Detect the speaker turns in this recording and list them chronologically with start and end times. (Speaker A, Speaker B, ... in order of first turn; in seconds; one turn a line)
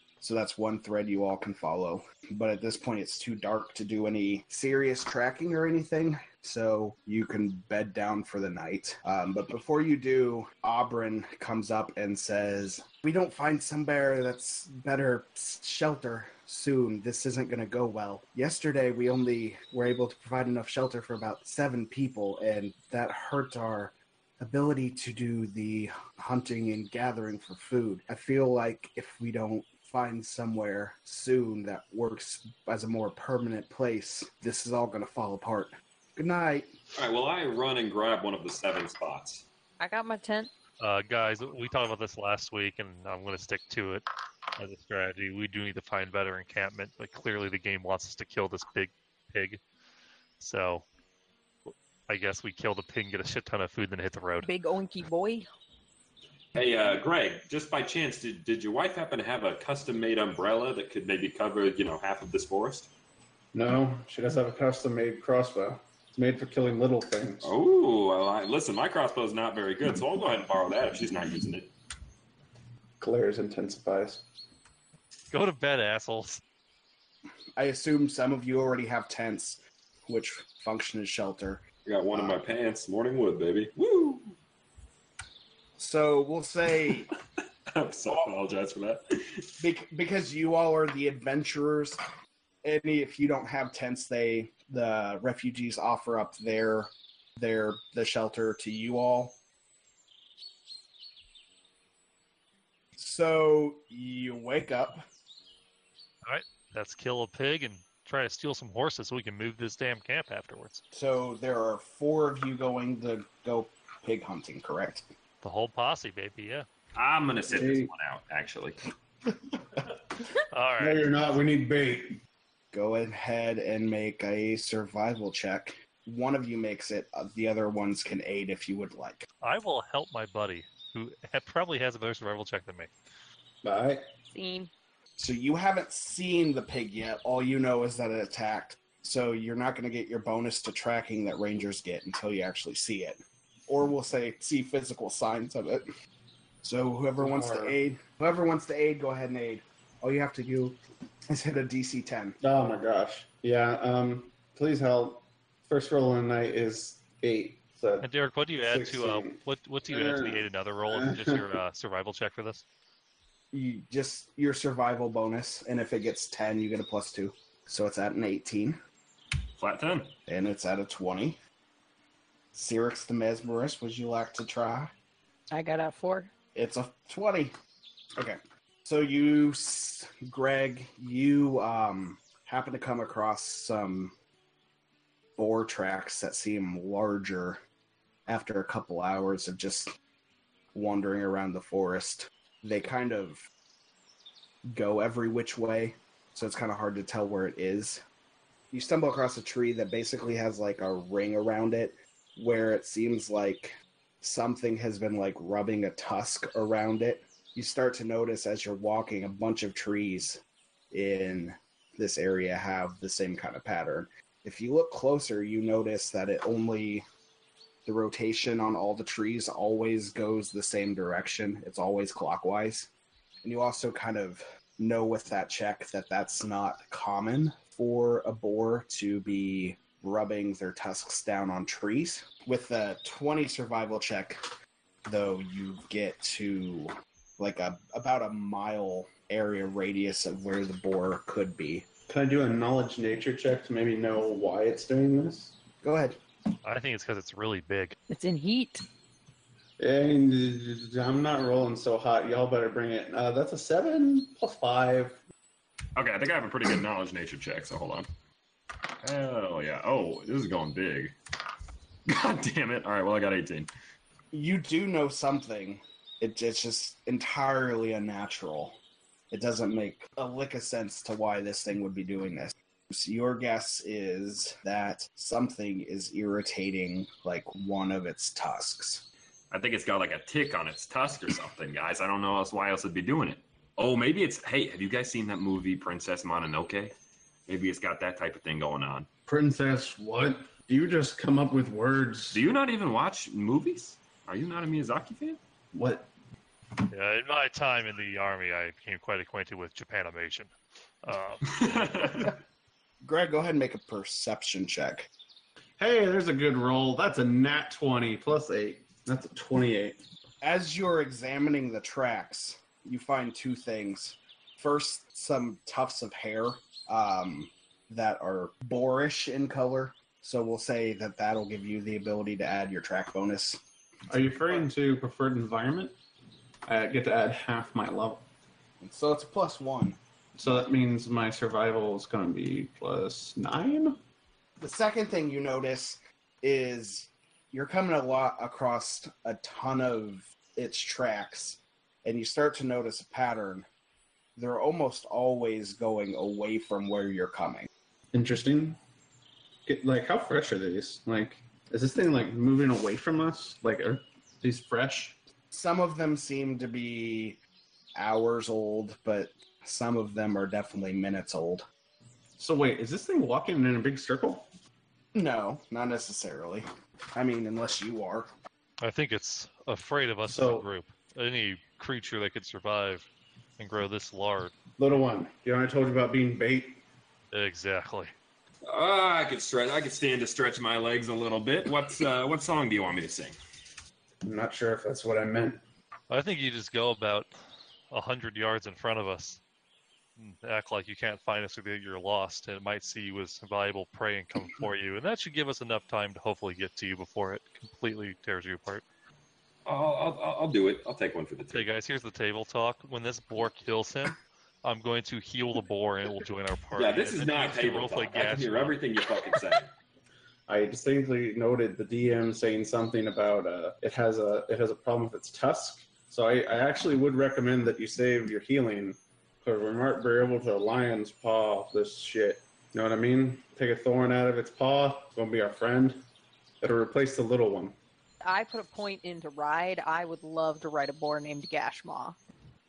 Speaker A: 0.2-36.7
Speaker B: 37.0-39.4
Speaker C: 39.8-40.5
Speaker D: 40.8-44.0
Speaker D: 44.6-49.6
Speaker D: 50.4-50.9
Speaker D: 51.7-54.5
Speaker C: 54.4-55.5
Speaker B: 56.5-62.9
Speaker E: 63.5-67.5
Speaker B: 67.4-71.7
Speaker E: 73.0-74.2
Speaker D: 75.3-76.4
Speaker A: 77.5-82.4
Speaker B: 81.8-84.3
Speaker A: 85.8-87.1
Speaker B: 87.7-89.5
Speaker A: 89.6-92.0
Speaker A: 92.6-99.4
Speaker A: 103.0-105.0
Speaker D: 106.2-110.8
Speaker A: 110.9-115.1
Speaker D: 115.4-116.7
Speaker B: 116.9-118.8
Speaker E: 117.5-117.9
Speaker D: 120.5-121.1
Speaker E: 120.8-122.2
Speaker A: 122.7-129.3
Speaker D: 129.4-132.9
Speaker E: 133.6-134.1
Speaker C: 134.3-134.7
Speaker A: 135.2-145.8
Speaker A: 146.6-152.4
Speaker E: 147.2-147.8
Speaker E: 152.4-158.1
Speaker D: 158.0-162.6
Speaker E: 158.6-161.4
Speaker A: 163.5-168.8
Speaker B: 169.6-170.1
Speaker A: 170.3-171.4
Speaker A: 172.5-174.9
Speaker C: 175.5-176.3
Speaker A: 176.5-177.5
Speaker A: 178.2-184.1
Speaker A: 185.3-187.6
Speaker A: 188.3-189.9
Speaker A: 190.7-193.4
Speaker A: 194.7-198.0
Speaker A: 198.7-217.0
Speaker A: 217.8-222.9
Speaker A: 223.4-234.4
Speaker A: 235.0-241.8
Speaker E: 242.1-245.6
Speaker A: 245.8-246.2
Speaker D: 246.6-247.9
Speaker C: 248.1-248.8
Speaker E: 249.8-255.2
Speaker B: 255.9-258.1
Speaker B: 259.0-261.1
Speaker B: 262.1-263.7
Speaker A: 264.3-268.8
Speaker A: 269.3-279.1
Speaker B: 279.5-286.9
Speaker B: 287.5-289.1
Speaker E: 289.3-292.4
Speaker B: 292.3-295.4
Speaker E: 295.7-296.1
Speaker D: 296.9-300.5
Speaker D: 301.0-301.5
Speaker B: 301.4-302.4
Speaker A: 303.0-305.1
Speaker E: 305.8-310.0
Speaker A: 310.4-323.6
Speaker E: 324.1-326.0
Speaker E: 326.6-328.3
Speaker A: 328.8-330.6
Speaker E: 330.4-334.0
Speaker A: 334.6-343.7
Speaker A: 344.4-347.7
Speaker E: 348.1-348.8
Speaker E: 349.6-355.2
Speaker A: 355.5-357.4
Speaker A: 357.9-361.6
Speaker E: 362.4-364.5
Speaker A: 365.1-368.3
Speaker D: 368.8-373.1
Speaker E: 370.2-370.7
Speaker D: 373.6-374.5
Speaker E: 374.8-376.8
Speaker D: 377.3-378.1
Speaker B: 378.6-383.4
Speaker E: 384.2-385.6
Speaker D: 386.1-387.3
Speaker D: 387.9-389.4
Speaker D: 390.2-398.8
Speaker B: 399.6-401.6
Speaker D: 401.5-408.8
Speaker B: 406.8-409.7
Speaker E: 410.5-426.0
Speaker E: 426.6-427.8
Speaker C: 428.2-432.2